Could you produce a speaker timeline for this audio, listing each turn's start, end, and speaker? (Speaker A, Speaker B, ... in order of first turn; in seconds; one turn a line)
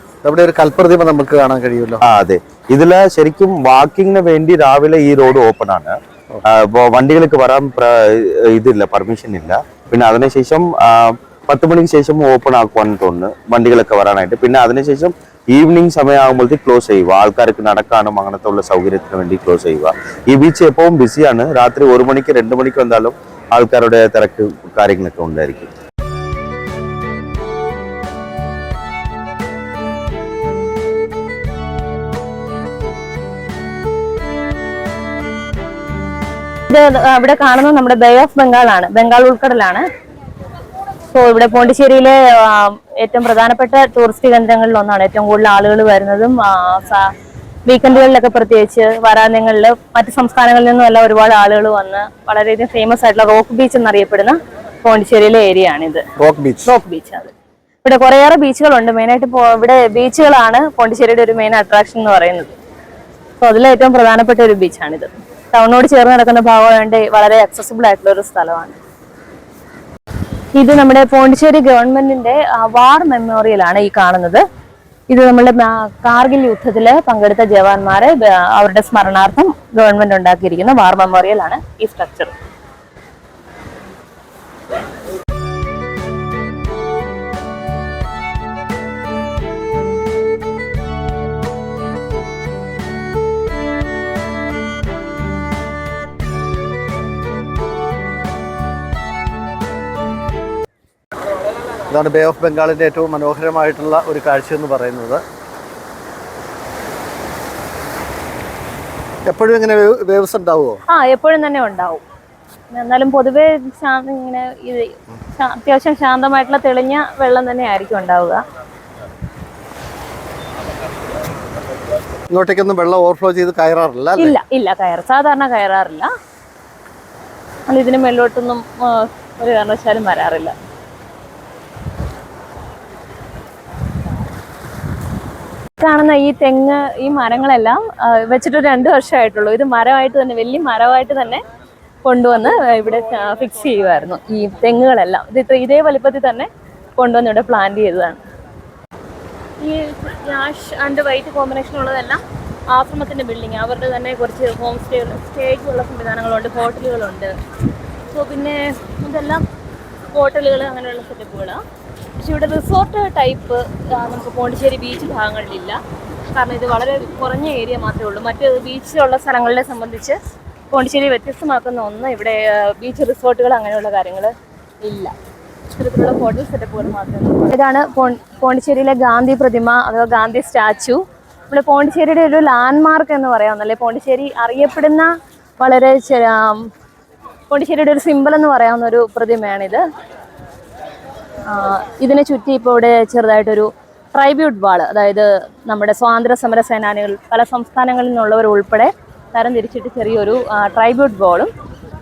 Speaker A: 0.2-2.0
Speaker B: 2.0-25.7
Speaker C: 36.7-39.9
Speaker C: 41.1-47.1
Speaker C: 47.7-56.0
Speaker A: 56.2-56.7
Speaker C: 56.6-57.3
Speaker C: 57.8-62.5
Speaker C: 63.4-68.8
Speaker C: 70.5-74.4
Speaker C: 75.1-82.3
Speaker A: 101.9-105.2
Speaker A: 109.3-110.8
Speaker C: 110.9-112.0
Speaker C: 112.7-118.4
Speaker A: 122.3-124.4
Speaker C: 124.2-126.1
Speaker C: 127.7-130.5
Speaker C: 135.8-141.4
Speaker C: 142.0-148.2
Speaker C: 149.6-157.3
Speaker C: 158.1-159.4
Speaker C: 160.1-161.6
Speaker C: 162.2-170.2
Speaker C: 170.7-175.1
Speaker C: 175.7-186.7
Speaker C: 187.5-189.8
Speaker C: 191.4-201.5